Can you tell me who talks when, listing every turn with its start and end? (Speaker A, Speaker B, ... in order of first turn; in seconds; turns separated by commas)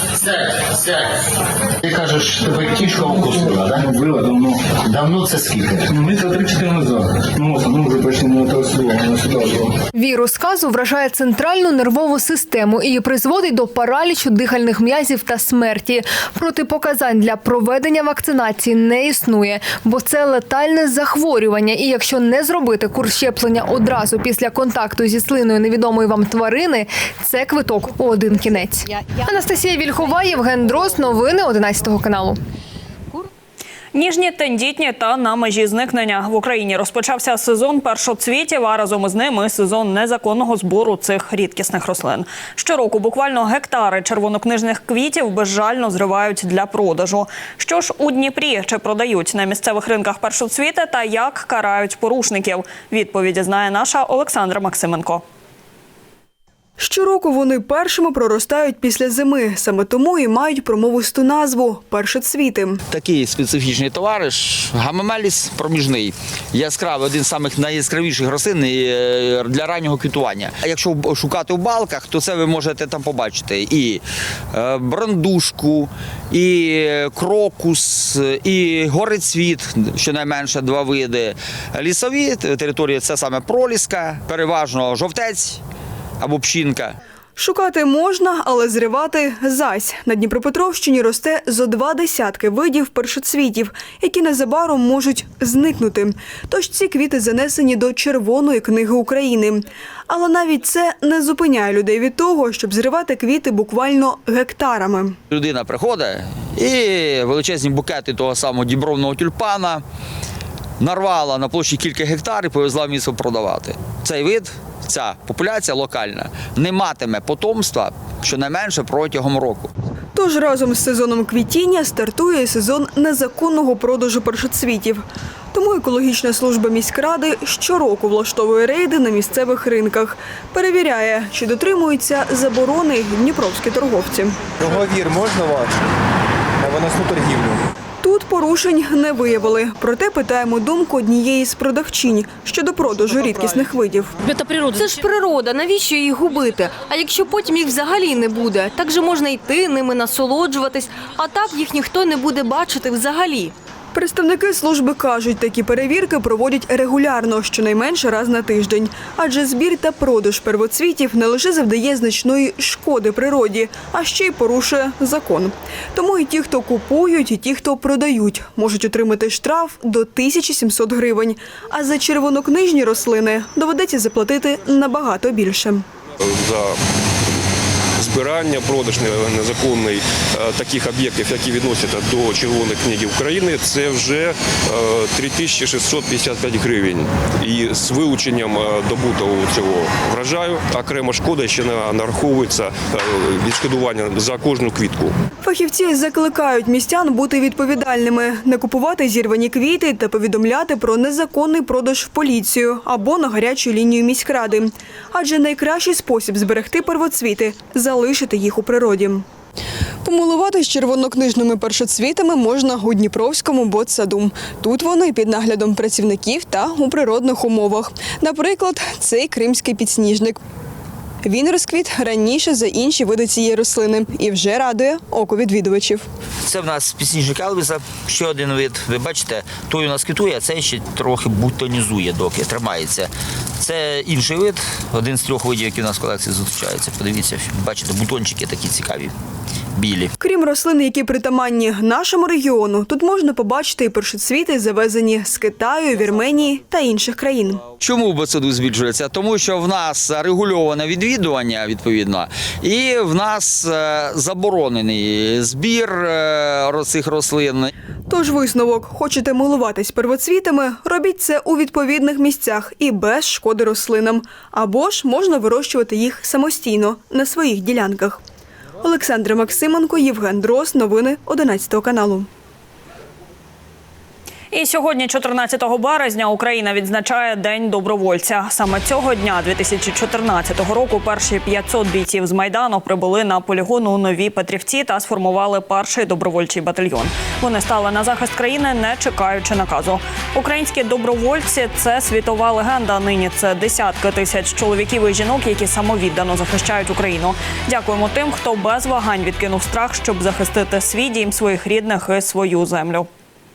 Speaker A: 2.5-4.8, Speaker A: 5.8-9.7, Speaker B: 9.9-32.4, Speaker C: 33.9-55.2, Speaker D: 56.8-62.8, Speaker E: 62.9-85.6, Speaker E: 86.2-87.0, Speaker D: 87.4-105.2, Speaker E: 105.3-109.8, Speaker E: 110.8-119.7, Speaker D: 120.2-134.5, Speaker F: 134.5-135.8, Speaker F: 136.6-137.6, Speaker D: 138.0-144.1, Speaker G: 144.2-153.5, Speaker D: 153.9-175.8, Speaker H: 176.2-176.8, Speaker H: 178.0-195.2, Speaker D: 195.4-209.2, Speaker D: 210.0-220.4, Speaker D: 221.2-226.1, Speaker E: 226.4-239.1, Speaker E: 239.7-240.1, Speaker D: 240.2-247.7, Speaker E: 247.8-257.7, Speaker D: 258.1-268.2, Speaker D: 268.8-272.3, Speaker C: 274.5-303.1